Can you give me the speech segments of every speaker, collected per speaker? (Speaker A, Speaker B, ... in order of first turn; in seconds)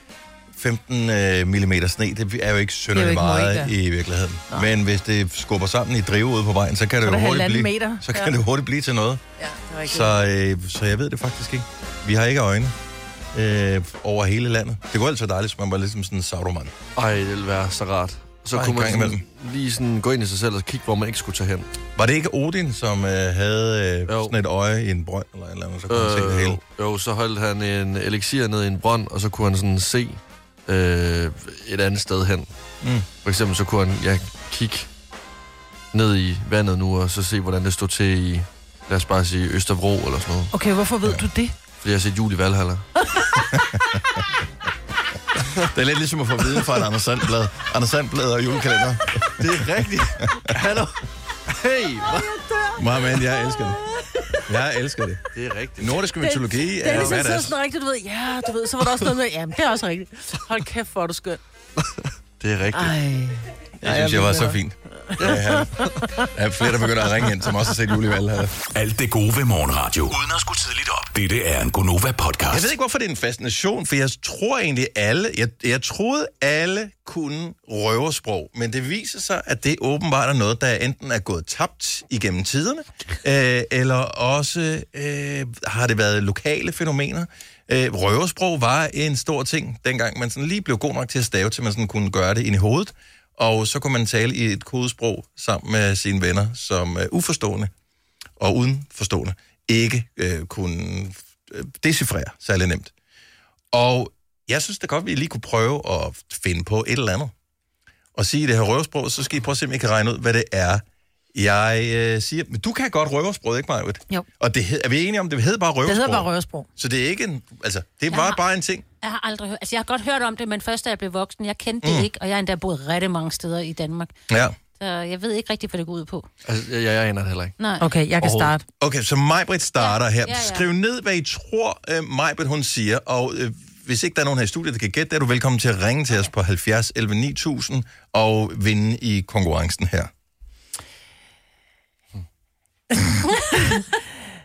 Speaker A: 0.6-9.2, 9.8-12.8, 13.3-16.7, 18.5-19.2, 22.0-26.6, 32.8-33.1, 43.5-44.2, 45.6-49.7, 52.8-53.8, 54.4-55.3, 55.8-57.5, 63.8-68.6, 72.5-97.7, 98.4-102.9, 103.7-107.3, 108.2-118.8, 121.8-122.1, 124.3-124.6, 128.8-140.1
Speaker B: 2.9-3.7, 7.0-8.3, 9.4-10.2, 40.5-41.5, 52.4-52.7, 56.2-61.4, 62.8-65.2, 115.8-116.7, 127.8-128.6, 142.9-144.0
Speaker C: 17.0-21.7, 24.1-24.3, 25.9-32.5, 33.2-34.9, 35.9-40.5, 41.8-42.9, 49.4-52.4, 55.3-56.0, 56.9-57.2, 61.8-63.0, 65.2-65.9, 126.5-127.6, 128.2-128.5
Speaker D: 68.7-72.7
Speaker E: 118.1-118.4, 119.0-124.1, 124.8-126.3, 127.6-127.8, 129.8-130.7